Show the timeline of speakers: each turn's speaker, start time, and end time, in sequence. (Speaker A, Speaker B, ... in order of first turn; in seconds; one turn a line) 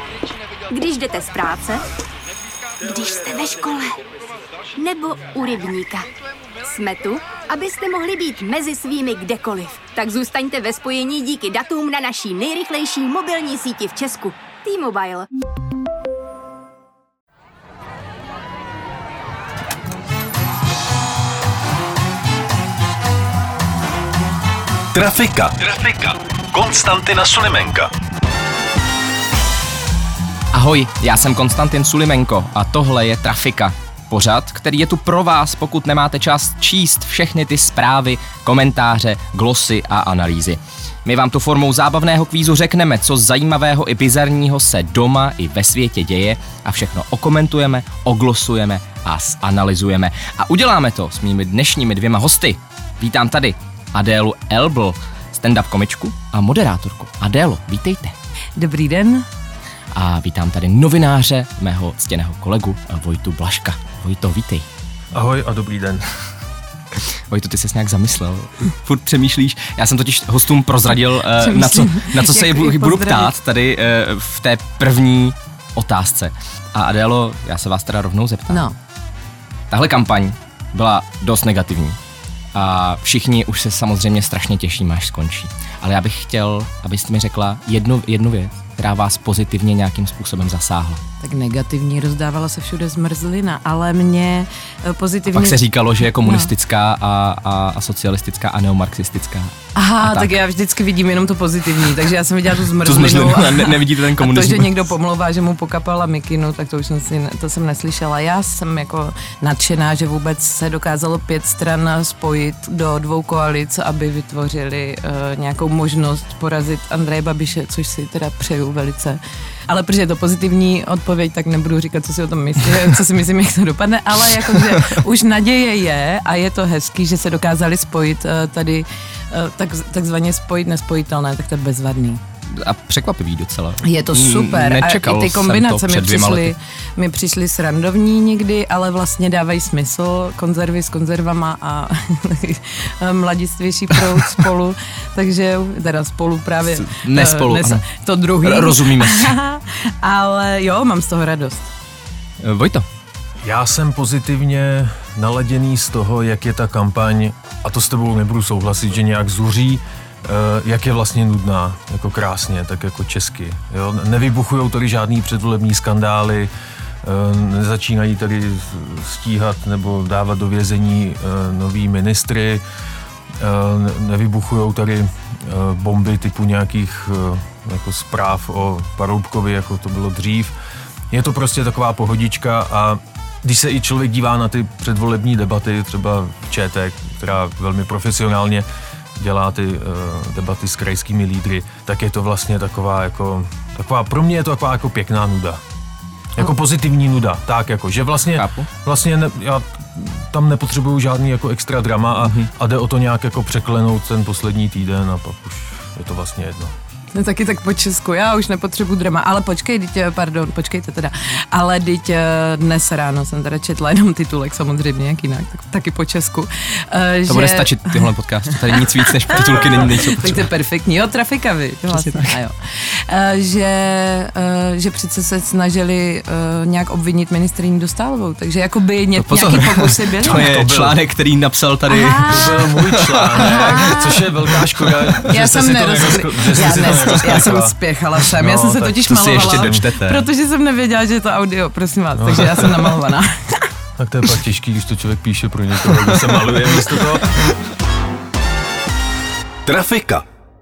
Speaker A: 0.7-1.9
Speaker A: 2.8-4.0
Speaker A: 4.7-6.1
Speaker A: 6.6-15.3
Speaker B: 24.9-27.9
Speaker C: 30.5-58.1
Speaker D: 58.6-59.3
Speaker C: 59.9-64.7
Speaker E: 65.1-66.1
Speaker C: 67.3-78.7
Speaker D: 71.3-73.3
Speaker D: 78.5-78.8
Speaker C: 79.7-82.0
Speaker C: 82.5-91.0
Speaker D: 91.2-95.6
Speaker C: 95.3-100.3
Speaker D: 96.2-96.5
Speaker D: 99.8-132.2
Speaker C: 102.7-104.8
Speaker C: 132.5-136.5
Speaker D: 133.8-151.7
Speaker C: 146.7-147.8
Speaker C: 148.4-149.4
Speaker C: 152.4-152.9
Speaker E: 153.4-166.5
Speaker E: 167.0-172.6
Speaker E: 173.4-180.6
Speaker E: 181.1-188.7
Speaker E: 189.2-195.6
Speaker E: 196.3-206.7
Speaker C: 198.4-198.7
Speaker C: 202.2-202.5
Speaker D: 207.1-218.1
Speaker C: 217.3-220.5
Speaker D: 218.7-230.4
Speaker C: 221.9-222.3
Speaker C: 229.2-234.1
Speaker E: 230.2-231.0
Speaker D: 231.9-232.6
Speaker E: 232.3-239.9
Speaker D: 233.4-234.2
Speaker C: 234.8-235.2
Speaker D: 235.2-243.7
Speaker C: 236.7-237.4
Speaker C: 239.1-240.3
Speaker E: 242.2-242.9
Speaker E: 244.0-247.3
Speaker C: 245.9-247.6
Speaker B: 249.7-250.2